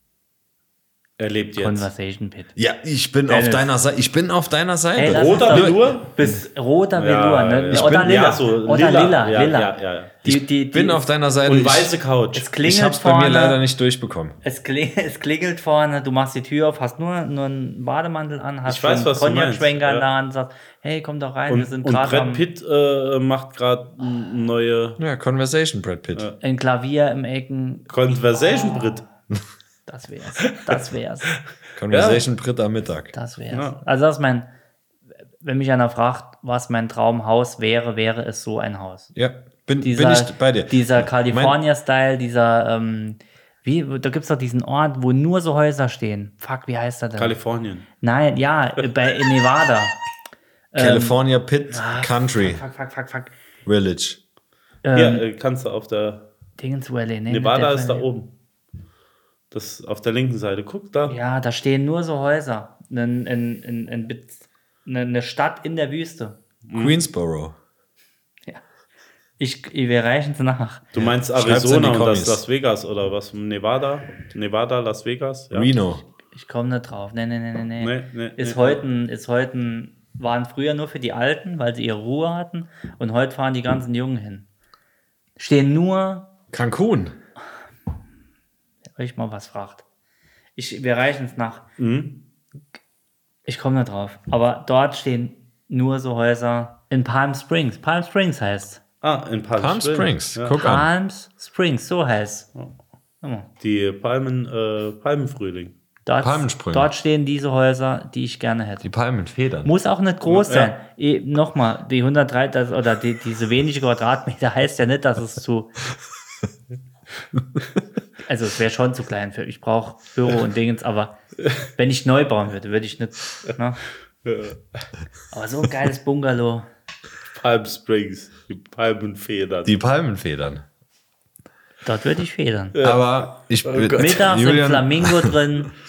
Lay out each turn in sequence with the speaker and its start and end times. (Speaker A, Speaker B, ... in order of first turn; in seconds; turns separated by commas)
Speaker A: 1.2-1.9, Speaker B: 1.6-2.5, Speaker C: 2.6-5.8, Speaker B: 3.3-3.7, Speaker B: 5.0-11.1, Speaker A: 5.1-6.1, Speaker A: 7.0-10.2, Speaker C: 7.7-8.1, Speaker C: 10.2-11.9, Speaker A: 11.5-12.5, Speaker B: 12.3-13.6, Speaker C: 12.6-14.4, Speaker B: 14.4-22.4, Speaker A: 18.7-20.1, Speaker A: 21.5-25.0, Speaker C: 25.0-26.3, Speaker B: 26.4-29.1, Speaker A: 27.9-29.1, Speaker B: 29.9-31.3, Speaker C: 31.8-33.1, Speaker A: 31.9-32.2, Speaker B: 33.1-34.5, Speaker A: 33.5-33.8, Speaker B: 35.4-39.1, Speaker C: 39.1-41.6, Speaker B: 39.8-47.4, Speaker A: 47.2-47.9, Speaker B: 48.0-50.0, Speaker B: 50.7-53.3, Speaker C: 50.8-52.6, Speaker C: 53.7-54.2, Speaker B: 54.8-55.2, Speaker A: 54.9-56.3, Speaker B: 56.6-58.1, Speaker A: 57.3-58.3, Speaker A: 59.5-61.2, Speaker B: 61.1-66.4, Speaker A: 66.7-67.0, Speaker C: 66.8-67.6, Speaker B: 69.4-70.9, Speaker A: 70.9-75.7, Speaker C: 71.3-72.4, Speaker C: 75.5-76.0, Speaker B: 76.3-84.5, Speaker A: 77.8-78.8, Speaker B: 85.4-86.3, Speaker C: 86.5-87.2, Speaker B: 88.9-89.8, Speaker B: 90.6-91.6, Speaker A: 91.8-92.2, Speaker B: 93.5-98.8, Speaker A: 99.0-100.6, Speaker C: 99.6-100.9, Speaker B: 100.5-102.5, Speaker B: 103.2-103.5, Speaker A: 103.6-105.8, Speaker B: 106.1-108.9, Speaker C: 106.2-106.9, Speaker C: 108.8-109.7, Speaker B: 109.7-115.8, Speaker A: 110.3-110.7, Speaker B: 118.2-121.2, Speaker B: 121.8-123.8, Speaker A: 124.2-124.6, Speaker B: 125.3-126.7, Speaker A: 127.3-129.7, Speaker C: 129.7-130.7, Speaker B: 131.8-132.8, Speaker A: 132.7-133.1, Speaker C: 132.8-135.4, Speaker A: 133.6-134.2, Speaker B: 133.9-135.7